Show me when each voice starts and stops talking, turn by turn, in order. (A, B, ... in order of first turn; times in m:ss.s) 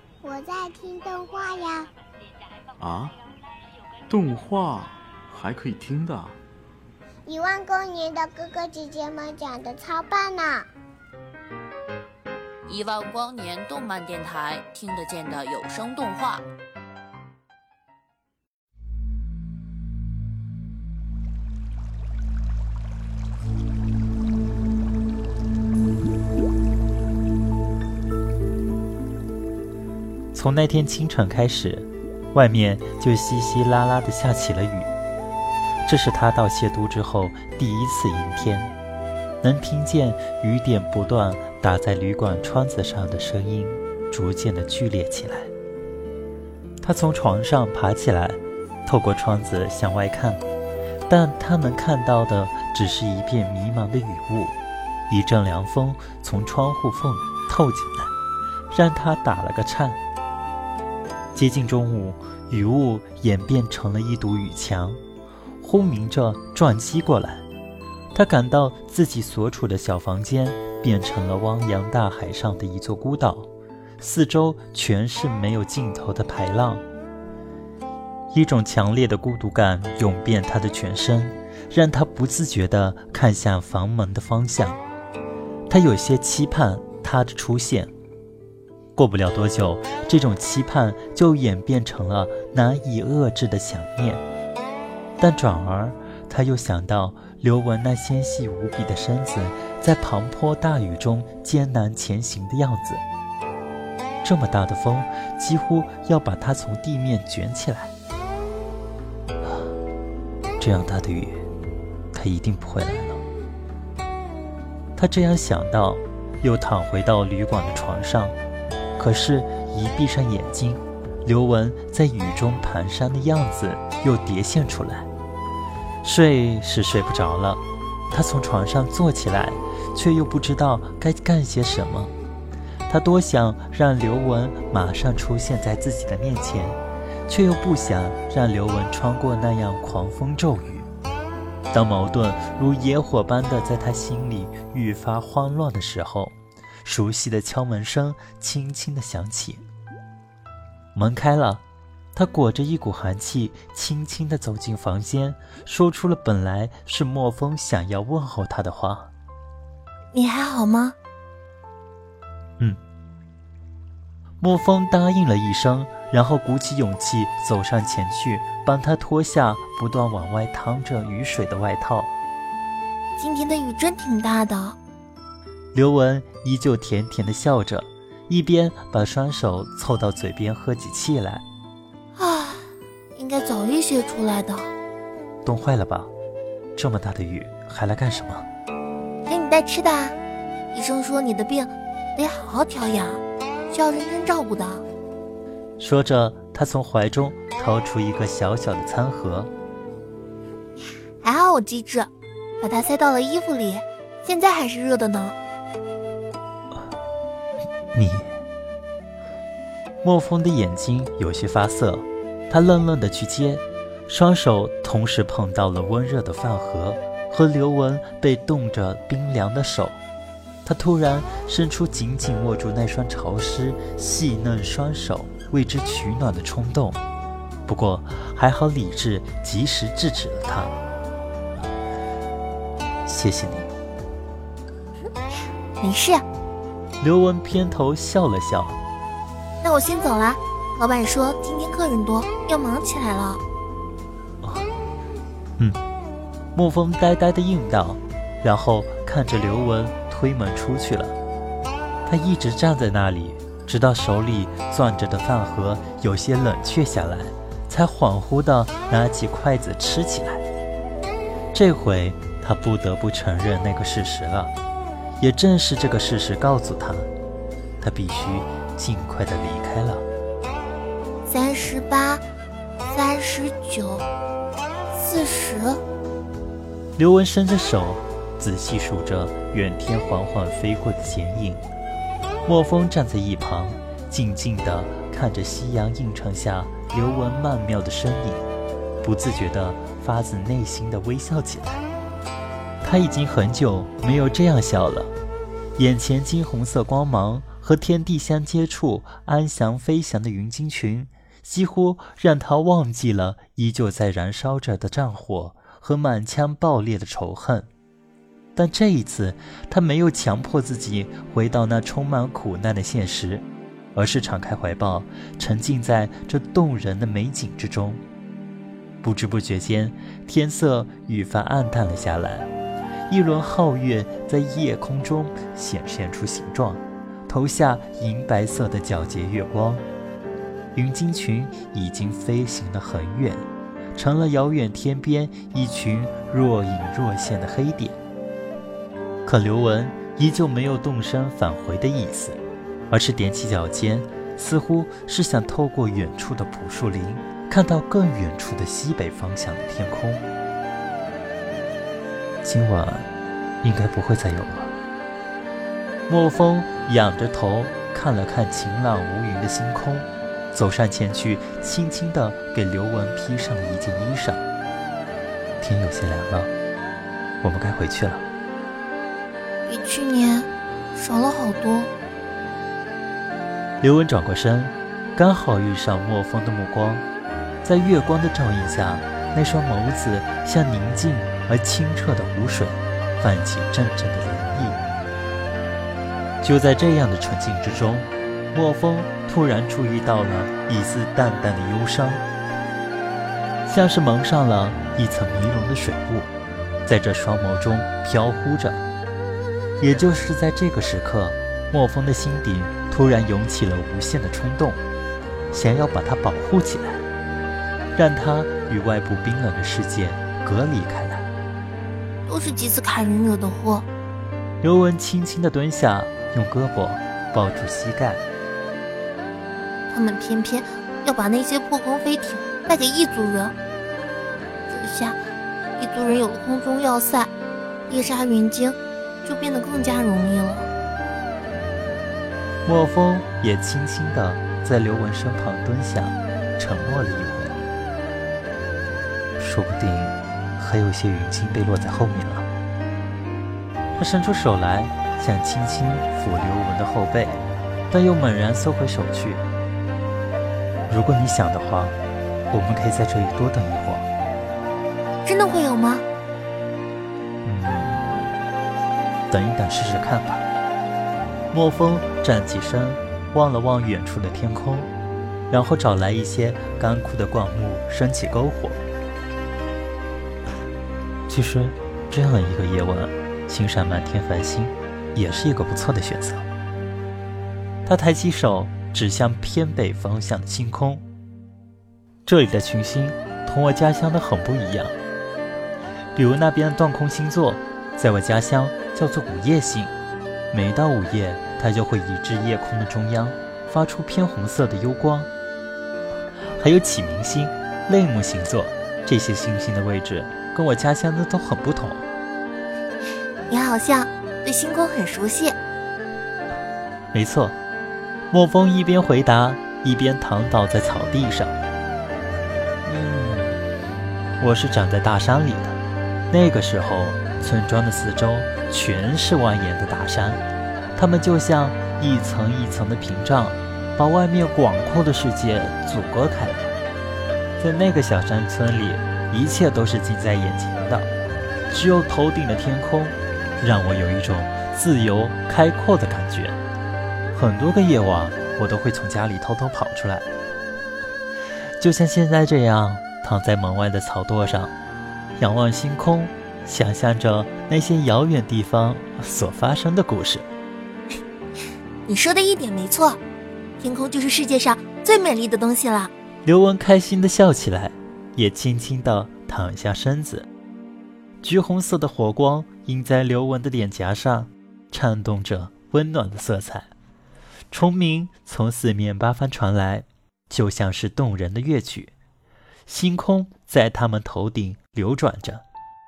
0:00.2-0:01.9 A
0:02.8-0:03.2 B
0:04.1-0:06.4 B
0:07.3-0:10.7 A
0:12.7-0:16.4 C
0:30.3-0:34.9 D
0:35.9-0:38.7 D
0:39.4-0:45.5 D
0:46.8-0:50.4 D
0:51.1-0:54.6 D
0:55.1-0:58.1 D
0:58.7-1:00.0 D
1:01.4-1:05.0 D
1:05.6-1:07.4 D
1:08.1-1:13.5 D
1:14.0-1:16.8 D
1:18.3-1:24.8 D
1:25.7-1:27.9 D
1:29.0-1:34.2 D
1:35.2-1:43.0 D
1:44.2-1:47.9 D
1:50.6-1:51.4 D
1:52.1-1:53.2 D
1:55.0-1:58.4 D
1:59.0-2:05.1 D
2:06.0-2:12.1 D
2:12.9-2:20.9 D
2:21.7-2:29.6 D
2:31.0-2:31.6 D
2:32.2-2:39.1 D
2:40.1-2:41.0 E
2:44.4-2:52.1 D
2:53.2-2:54.8 E
2:55.7-3:01.4 D
3:02.2-3:04.7 E
3:05.4-3:06.1 D
3:06.8-3:08.5 D
3:09.3-3:10.2 E
3:10.7-3:14.8 E
3:15.8-3:19.5 D
3:21.2-3:25.4 E
3:27.9-3:28.3 D
3:30.0-3:40.0 D
3:40.6-3:47.0 D
3:47.7-3:50.8 D
3:53.1-3:53.7 D
3:55.8-3:56.2 E
3:57.0-3:58.8 D
3:59.6-4:03.4 E
4:04.4-4:04.7 D
4:06.6-4:11.2 D
4:12.0-4:20.4 D
4:21.5-4:24.5 D
4:25.2-4:27.1 D
4:27.8-4:30.0 D
4:31.3-4:32.2 E
4:32.9-4:34.1 E
4:34.9-4:35.8 E
4:37.0-4:41.6 D
4:42.5-4:48.5 D
4:49.0-4:51.8 D
4:52.8-4:55.1 D
4:55.8-5:07.7 D
5:08.6-5:18.0 D
5:19.0-5:22.5 D
5:23.1-5:29.8 D
5:30.8-5:38.0 D
5:39.3-5:42.4 D
5:42.9-5:50.2 D
5:52.4-5:53.1 D
5:53.6-5:54.7 D
5:56.1-6:04.4 D
6:05.6-6:06.5 D
6:07.4-6:08.2 D
6:09.7-6:11.9 E
6:13.8-6:17.1 D
6:17.6-6:24.8 D
6:26.4-6:32.2 D
6:33.7-6:36.3 D
6:36.9-6:38.8 D
6:39.8-6:44.8 D
6:45.5-6:47.0 D
6:48.0-6:51.3 D
6:52.3-6:53.9 E
6:54.6-6:58.2 D
6:59.9-7:03.6 E
7:04.7-7:05.2 E
7:05.8-7:07.3 E
7:07.9-7:10.7 E
7:12.6-7:17.6 D
7:19.4-7:22.5 D
7:24.0-7:29.5 D
7:30.9-7:32.0 D
7:32.5-7:34.1 D
7:35.2-7:36.0 E
7:37.4-7:38.3 D
7:39.3-7:40.4 D
7:41.5-7:44.9 D
7:45.5-7:48.8 D
7:51.3-7:56.5 D
7:57.9-8:01.0 D
8:02.2-8:05.0 D
8:06.2-8:09.9 D
8:10.5-8:15.3 D
8:16.5-8:22.1 D
8:23.5-8:25.6 E
8:27.1-8:27.6 D
8:28.3-8:31.6 D
8:32.8-8:33.6 D
8:34.4-8:40.4 D
8:41.0-8:46.8 D
8:47.6-8:51.1 D
8:51.7-8:56.6 D
8:57.3-9:00.3 D
9:01.8-9:04.7 D
9:05.4-9:10.5 D
9:12.0-9:13.2 E
9:13.8-9:16.1 E
9:16.4-9:20.5 D
9:21.4-9:26.9 D
9:27.7-9:32.1 D
9:32.9-9:35.6 D